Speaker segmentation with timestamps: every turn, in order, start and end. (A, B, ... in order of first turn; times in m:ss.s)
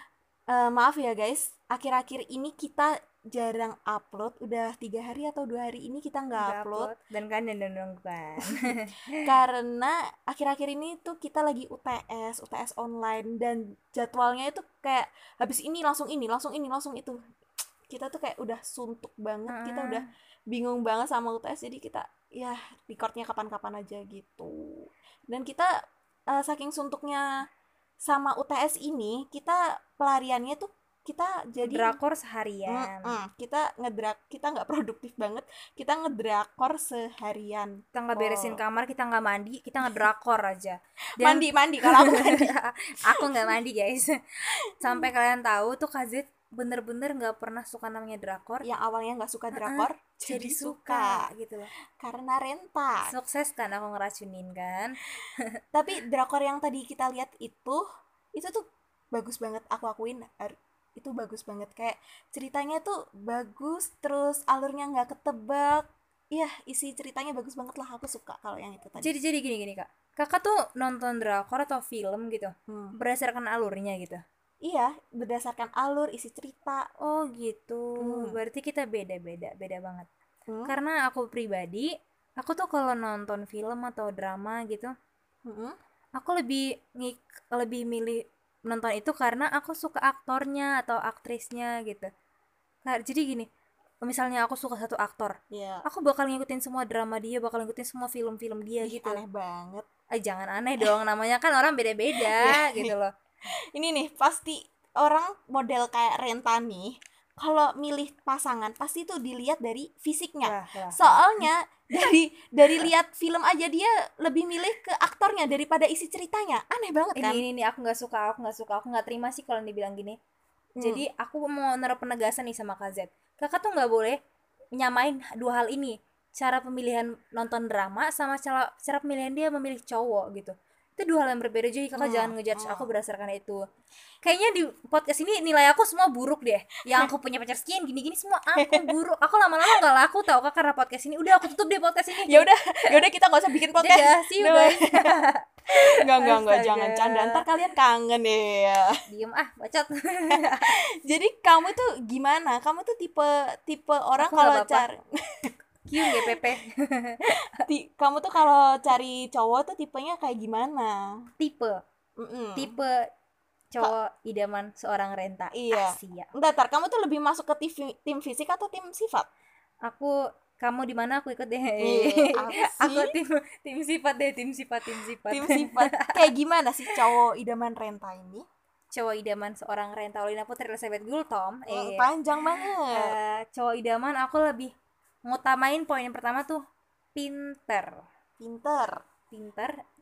0:00.5-0:06.9 A
0:06.4-0:09.3 B
0:08.4-0:17.2 A
0:17.9-0:25.7 A
0:19.5-0:20.1 B
0:26.3-0:27.4 A
0:28.0-0:32.0 A
0:31.6-0:33.2 B
0:32.7-0:38.6 A
0:37.9-0:48.7 B
0:41.2-0:42.5 A
0:43.2-0:43.6 A
0:44.6-0:45.1 A
0:48.6-0:51.3 A
0:49.5-0:51.7 B
0:52.0-0:53.1 A
0:53.1-0:55.6 B
0:55.7-1:09.1 A
1:09.0-1:14.2 B
1:12.7-1:13.0 A
1:14.6-1:16.9 A
1:17.0-1:20.1 B
1:18.0-1:18.4 A
1:20.5-1:20.7 A
1:20.7-1:24.9 B
1:25.4-1:25.8 A
1:26.2-1:32.1 B
1:32.8-1:33.5 B
1:34.0-1:39.2 B
1:35.5-1:35.8 A
1:38.8-1:39.9 A
1:40.2-1:43.1 B
1:42.2-1:42.9 A
1:43.5-1:57.4 A
1:50.4-1:51.3 B
1:57.2-2:00.2 B
2:00.8-2:01.1 A
2:00.8-2:04.2 B
2:04.8-2:13.6 B
2:12.0-2:12.9 A
2:14.2-2:23.0 B
2:18.6-2:18.9 A
2:22.2-2:25.2 A
2:23.8-2:27.4 B
2:25.7-2:29.0 A
2:29.1-2:30.8 B
2:30.3-2:36.4 A
2:34.2-2:34.9 B
2:35.9-2:37.6 B
2:37.6-2:41.2 A
2:41.4-2:41.8 B
2:42.2-2:42.7 A
2:42.6-2:43.1 B
2:43.7-2:46.3 B
2:45.5-2:49.3 A
2:49.8-2:56.3 B
2:51.8-2:53.1 A
2:55.1-2:58.5 A
2:58.9-3:04.7 B
3:01.7-3:03.2 A
3:05.3-3:06.6 B
3:07.2-3:08.0 B
3:08.4-3:09.0 A
3:09.3-3:09.8 B